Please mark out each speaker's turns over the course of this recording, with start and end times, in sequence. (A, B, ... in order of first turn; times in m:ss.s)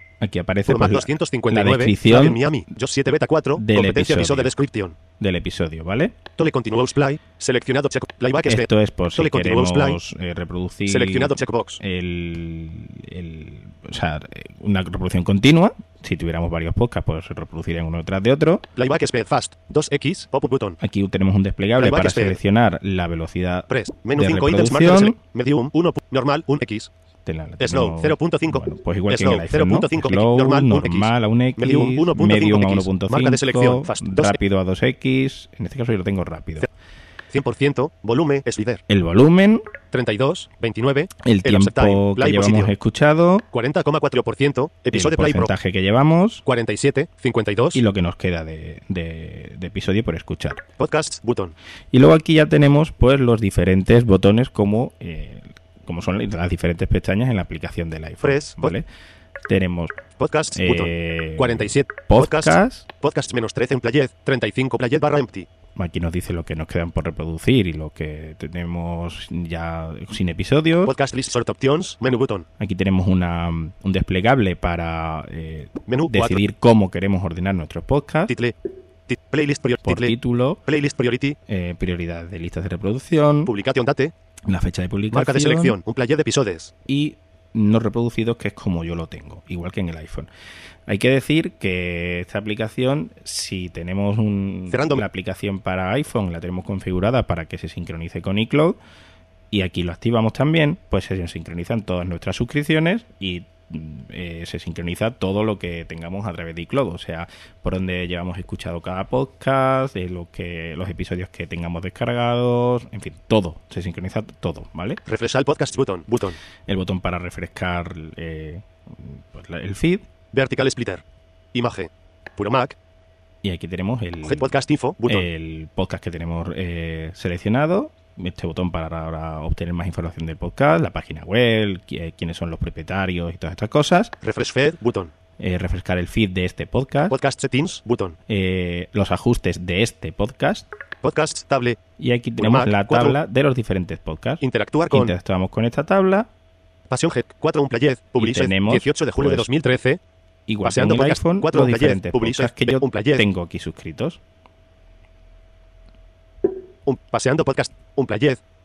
0:00.2-0:02.4 A
0:00.6-0:05.0 B
0:03.6-0:04.5 A
0:05.2-0:06.2 A
0:06.3-0:10.0 B
0:08.4-0:18.6 A
0:10.8-0:11.8 B
0:18.8-0:20.8 B
0:20.8-0:25.2 A
0:21.8-0:22.4 B
0:23.7-0:26.9 B
0:27.2-0:36.7 A
0:27.6-0:34.4 B
0:37.3-0:38.8 B
0:38.9-0:39.6 A
0:39.9-0:42.7 B
0:41.2-0:43.4 A
0:43.5-0:45.5 B
0:44.9-0:46.4 A
0:46.4-0:47.8 B
0:47.7-0:50.6 A
0:50.8-0:51.5 B
0:51.9-0:58.8 A
0:58.2-0:58.8 B
0:59.4-1:00.0 A
1:00.2-1:05.5 B
1:00.5-1:02.9 A
1:05.8-1:11.0 A
1:10.8-1:12.4 B
1:12.6-1:18.3 A
1:15.9-1:16.4 B
1:18.3-1:18.5 B
1:19.1-1:21.4 B
1:19.8-1:20.6 A
1:21.5-1:23.5 A
1:23.4-1:24.1 B
1:24.5-1:25.8 A
1:25.1-1:26.7 B
1:26.9-1:30.3 A
1:30.9-1:38.8 A
1:34.7-1:35.0 B
1:39.5-1:55.0 A
1:55.0-1:56.4 B
1:56.7-2:00.0 A
2:00.3-2:01.0 B
2:01.5-2:02.8 B
2:03.4-2:14.1 A
2:04.2-2:05.3 B
2:14.2-2:15.1 B
2:15.4-2:17.2 A
2:17.1-2:18.2 B
2:18.3-2:20.7 A
2:21.0-2:21.8 B
2:22.0-2:26.3 A
2:22.4-2:23.2 B
2:24.4-2:25.1 B
2:26.9-2:30.0 B
2:28.2-2:29.5 A
2:30.5-2:34.2 A
2:30.6-2:33.3 B
2:36.8-2:38.4 B